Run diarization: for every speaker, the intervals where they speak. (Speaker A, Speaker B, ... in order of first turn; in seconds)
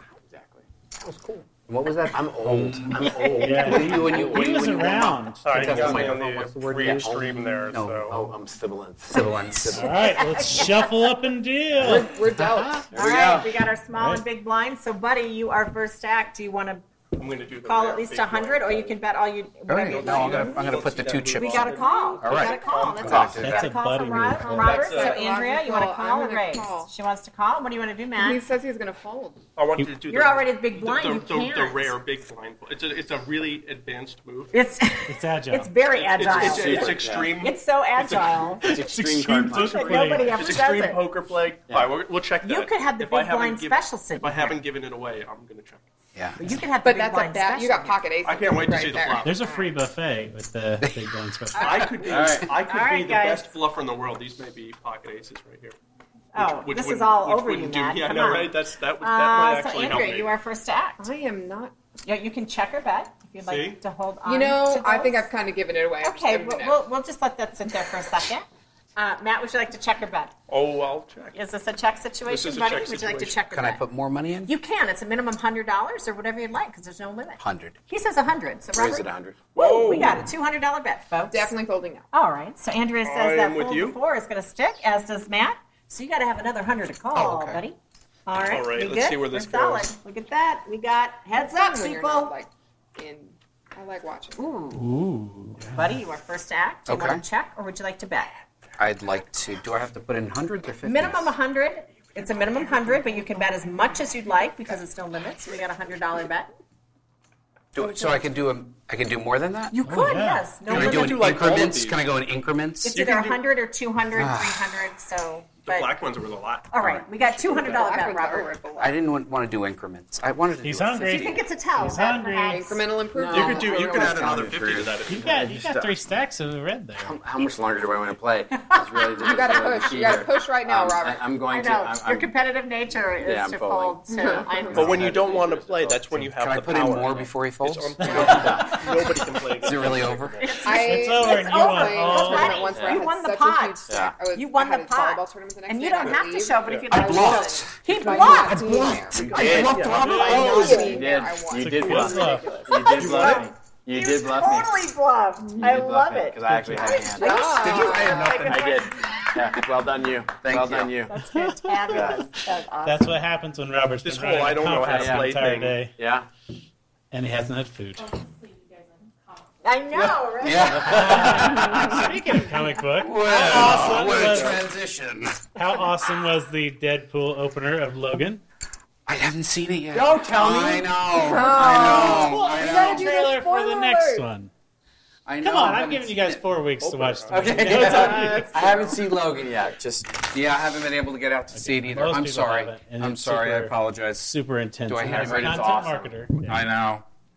Speaker A: 0.2-1.5, 2.1-7.4, 8.1-10.3, 12.9-13.6, 22.2-23.6, 36.2-37.4, 38.6-40.2, 41.7-41.9, 52.0-52.5, 78.7-79.5, 123.1-126.0, 127.0-132.3, 133.2-136.2, 138.1-138.8, 143.9-144.1, 149.1-154.8, 155.6-161.1, 161.9-162.2, 164.8-166.3, 170.8-171.9, 173.4-174.3, 179.9-182.2, 187.3-190.2, 195.0-196.3
Speaker B: 1.0-8.3, 9.0-9.9, 19.7-23.7, 46.1-46.6, 50.8-51.1, 73.5-74.5, 77.4-77.8, 87.1-87.6, 96.9-97.2, 98.8-101.3, 107.7-109.8, 110.7-113.0, 114.1-114.7, 116.8-117.0, 118.8-121.4, 136.3-138.6, 139.6-140.6, 146.9-151.0, 157.3-158.7, 160.4-161.0, 170.4-172.1, 173.0-175.5, 179.1-183.2, 185.2-186.4, 187.6-188.0, 190.3-194.3, 194.9-195.8, 196.4-197.1
Speaker C: 3.4-6.0, 9.7-12.9, 13.9-14.2, 23.3-24.9, 35.1-35.7, 38.7-40.6, 49.2-52.1, 94.7-96.0, 109.8-110.5, 120.6-122.8, 125.0-127.2, 138.0-138.7, 140.7-142.7, 149.9-150.5, 151.5-152.7, 161.3-162.1, 162.8-165.9, 167.1-168.2, 170.8-174.6, 175.5-178.4, 181.8-184.5, 185.4-188.7, 191.5-196.6
Speaker D: 5.4-8.1, 17.1-18.9, 19.8-23.3, 24.4-25.2, 29.6-34.5, 35.9-38.6, 40.0-45.8, 48.2-49.3, 51.6-55.8, 56.3-60.3, 63.4-63.8, 70.5-71.3, 72.3-73.4, 79.5-80.3, 83.0-84.0, 88.4-89.9, 110.7-112.1, 112.9-113.4, 115.7-116.7, 123.3-125.5, 134.7-140.5, 146.0-146.9, 149.7-150.0, 153.0-153.4, 164.0-165.8, 186.8-188.1
Speaker E: 9.8-10.9, 12.9-16.8, 17.6-20.8, 21.3-28.4, 30.1-31.9, 34.5-38.6, 39.5-41.0, 42.4-44.6, 46.4-48.0, 51.8-52.1, 52.6-53.5, 56.3-61.1, 62.0-65.3, 66.0-70.3, 71.3-73.8, 74.5-81.5, 82.1-92.3, 94.4-94.9, 95.7-98.3, 100.8-106.5, 109.7-111.5, 112.8-115.9, 116.7-118.5, 121.0-122.8, 131.5-135.0, 140.4-148.9, 150.4-151.0, 152.6-159.4, 161.1-163.1, 169.6-171.5
Speaker F: 11.8-12.9, 24.6-26.9, 28.2-29.4, 46.8-49.6, 61.0-61.7, 64.2-66.8, 81.3-82.1, 91.4-94.5, 117.3-119.0, 121.8-124.5, 129.2-131.3, 134.1-134.7, 140.6-153.0, 157.1-158.3, 181.2-184.2, 187.9-188.9